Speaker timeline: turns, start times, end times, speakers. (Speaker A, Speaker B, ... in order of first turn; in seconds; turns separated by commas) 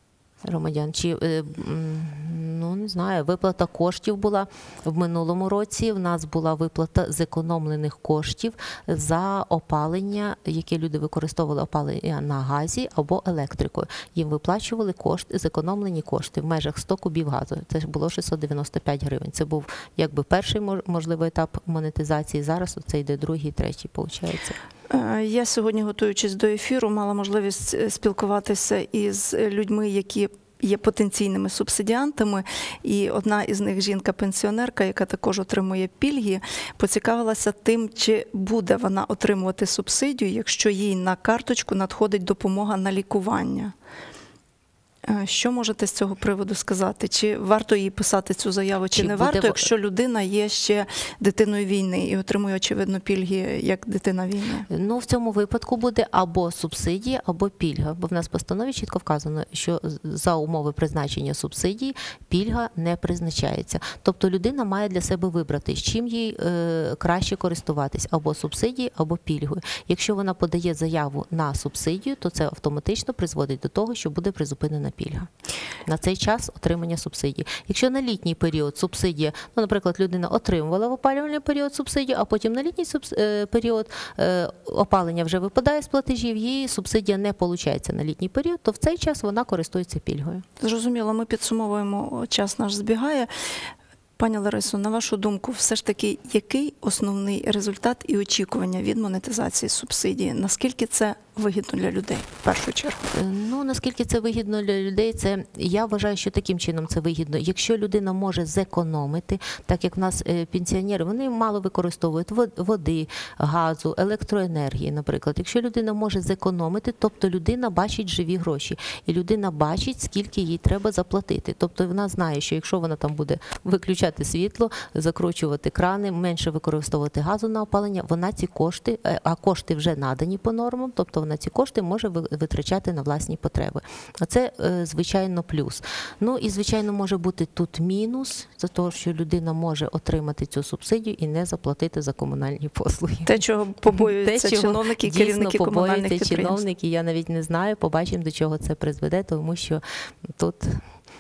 Speaker A: 0.4-24.6, Speaker B: 24.9-43.7, Speaker B: 45.1-54.7, Speaker A: 48.9-49.7, Speaker A: 54.7-75.3, Speaker A: 75.9-90.4, Speaker B: 90.6-93.3, Speaker B: 94.2-103.0, Speaker A: 103.1-143.4, Speaker B: 143.3-146.6, Speaker A: 143.9-150.8